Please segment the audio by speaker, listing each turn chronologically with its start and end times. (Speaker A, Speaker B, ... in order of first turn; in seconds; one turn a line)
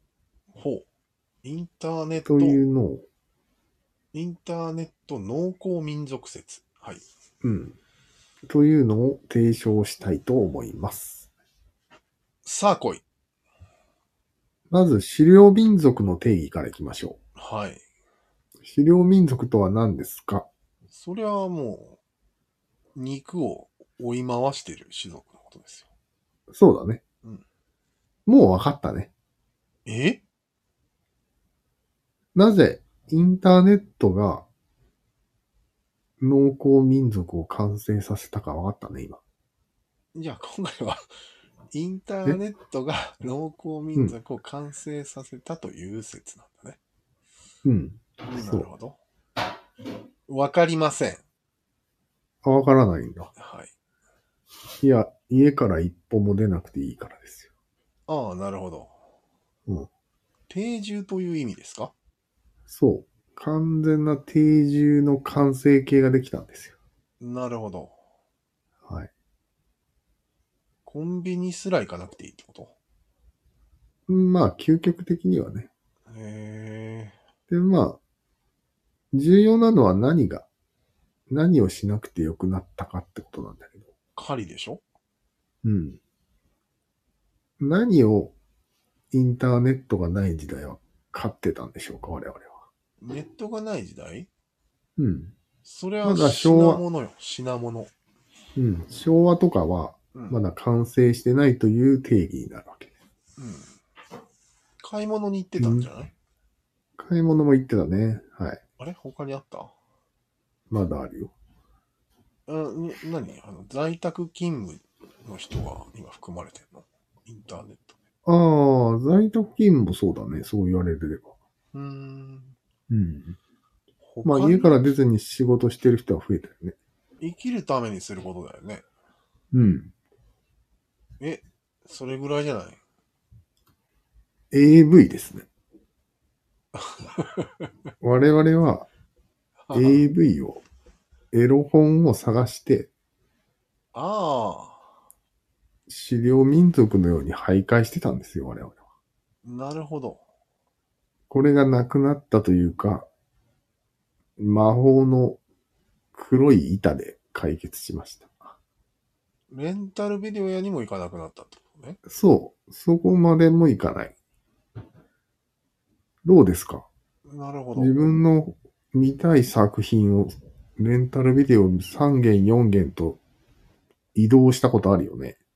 Speaker A: 0.5-0.9
Speaker A: 1.4-2.6
Speaker B: 2.3-3.0
Speaker A: 4.1-7.0
Speaker B: 7.4-7.8
Speaker B: 8.4-11.3
Speaker A: 12.4-13.0
Speaker B: 14.7-17.2
Speaker A: 17.4-17.8
Speaker B: 18.6-20.5
Speaker A: 20.9-22.0
Speaker A: 22.9-25.9
Speaker B: 26.5-27.0
Speaker B: 28.3-29.1
Speaker A: 29.9-30.2
Speaker B: 32.4-34.5
Speaker B: 36.2-39.2
Speaker A: 40.1-41.0
Speaker A: 41.7-46.8
Speaker B: 47.6-48.7
Speaker A: 48.2-49.0
Speaker A: 50.3-51.2
Speaker B: 52.4-53.3
Speaker A: 53.4-53.7
Speaker B: 54.8-57.5
Speaker A: 58.1-59.0
Speaker A: 60.5-61.9
Speaker B: 62.7-66.8
Speaker A: 67.2-68.0
Speaker B: 68.9-69.1
Speaker A: 70.8-72.7
Speaker B: 74.1-75.7
Speaker A: 76.1-77.2
Speaker B: 77.5-78.0
Speaker B: 79.1-80.5
Speaker B: 81.3-83.9
Speaker A: 84.2-84.8
Speaker B: 85.6-86.0
Speaker B: 87.6-88.3
Speaker B: 89.1-92.7
Speaker A: 93.0-94.3
Speaker B: 95.0-95.3
Speaker A: 95.6-97.9
Speaker B: 96.0-96.8
Speaker B: 98.6-102.9
Speaker A: 103.4-103.8
Speaker A: 104.8-106.1
Speaker B: 105.6-105.9
Speaker B: 107.0-108.6
Speaker A: 108.8-109.7
Speaker B: 110.7-111.3
Speaker A: 112.5-118.0
Speaker B: 118.3-121.3
Speaker A: 121.7-122.6
Speaker B: 122.9-123.4
Speaker A: 124.0-124.8
Speaker B: 124.2-126.8
Speaker A: 127.2-128.8
Speaker B: 129.5-129.9
Speaker A: 131.2-132.8
Speaker B: 134.5-135.5
Speaker A: 136.7-137.5
Speaker B: 138.0-138.9
Speaker A: 139.7-140.1
Speaker B: 139.7-140.6
Speaker B: 141.3-142.9
Speaker A: 143.9-144.9
Speaker B: 145.9-148.8
Speaker A: 149.4-150.2
Speaker B: 151.3-153.1
Speaker B: 154.4-155.4
Speaker B: 156.1-158.5
Speaker A: 159.5-162.0
Speaker B: 162.1-164.2
Speaker B: 166.2-166.9
Speaker A: 167.2-168.2
Speaker B: 167.8-173.2
Speaker B: 174.2-175.4